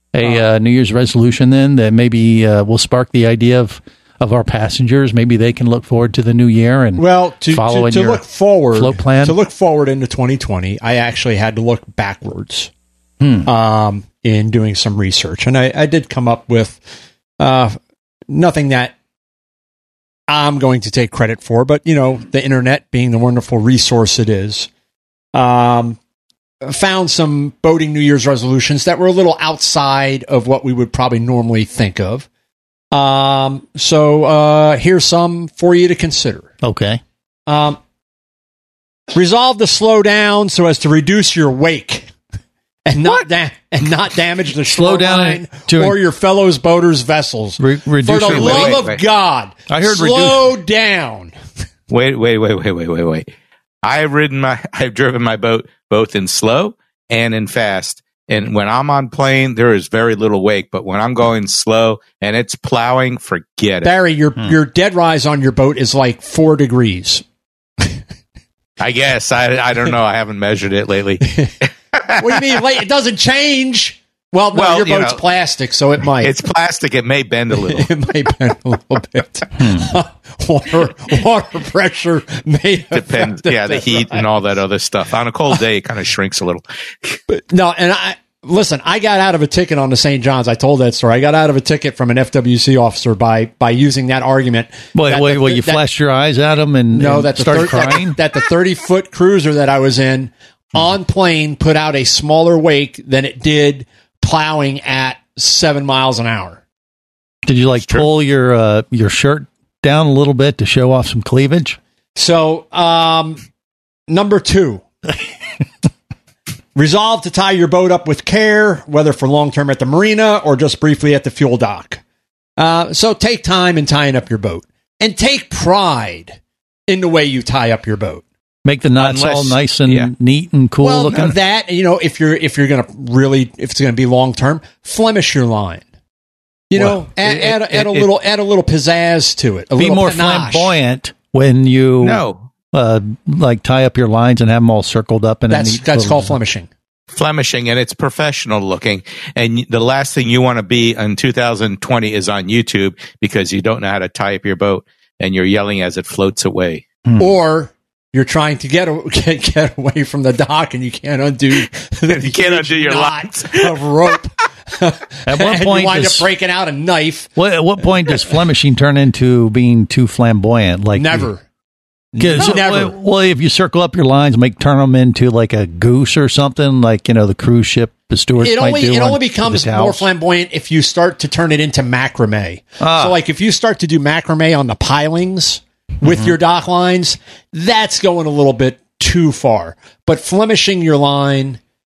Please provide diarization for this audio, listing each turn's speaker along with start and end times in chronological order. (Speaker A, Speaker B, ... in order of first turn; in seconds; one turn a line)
Speaker A: 0.1-9.4
Speaker B: 7.0-12.7
Speaker A: 13.2-13.5
Speaker B: 13.4-16.8
Speaker B: 17.4-17.8
Speaker B: 18.3-18.9
Speaker B: 20.3-24.7
Speaker B: 25.3-26.0
Speaker B: 26.6-32.3
Speaker B: 32.9-36.5
Speaker A: 36.6-37.0
Speaker B: 37.5-37.8
Speaker B: 39.1-42.1
Speaker B: 42.9-51.3
Speaker A: 44.7-46.0
Speaker A: 47.6-48.8
Speaker C: 48.3-49.0
Speaker A: 49.7-50.5
Speaker C: 51.9-53.3
Speaker C: 53.8-63.9
Speaker B: 63.8-67.2
Speaker C: 68.8-71.3
Speaker B: 71.3-71.5
Speaker B: 72.2-76.3
Speaker C: 74.5-75.2
Speaker C: 76.2-77.9
Speaker B: 77.5-84.2
Speaker A: 79.6-79.9
Speaker C: 82.9-87.2
Speaker B: 87.3-95.8
Speaker A: 94.9-98.2
Speaker B: 96.9-106.6
Speaker A: 107.5-111.8
Speaker C: 107.8-108.1
Speaker B: 112.2-113.4
Speaker B: 114.1-114.8
Speaker B: 116.8-122.0
Speaker B: 122.6-126.4
Speaker B: 126.9-128.2
Speaker A: 128.7-131.4
Speaker C: 129.0-130.1
Speaker B: 130.8-135.8
Speaker B: 136.7-140.8
Speaker C: 137.3-138.0
Speaker A: 139.8-142.2
Speaker C: 142.0-142.4
Speaker A: 142.7-146.4
Speaker B: 145.5-146.7
Speaker C: 147.1-156.8
Speaker B: 157.2-167.3
Speaker C: 162.1-163.8
Speaker A: 165.3-166.3
Speaker A: 167.4-171.3
Speaker B: 170.9-171.4
Speaker B: 172.1-172.9
Speaker A: 172.2-180.1
Speaker B: 178.4-191.6
Speaker A: 182.8-183.2
Speaker A: 186.1-186.3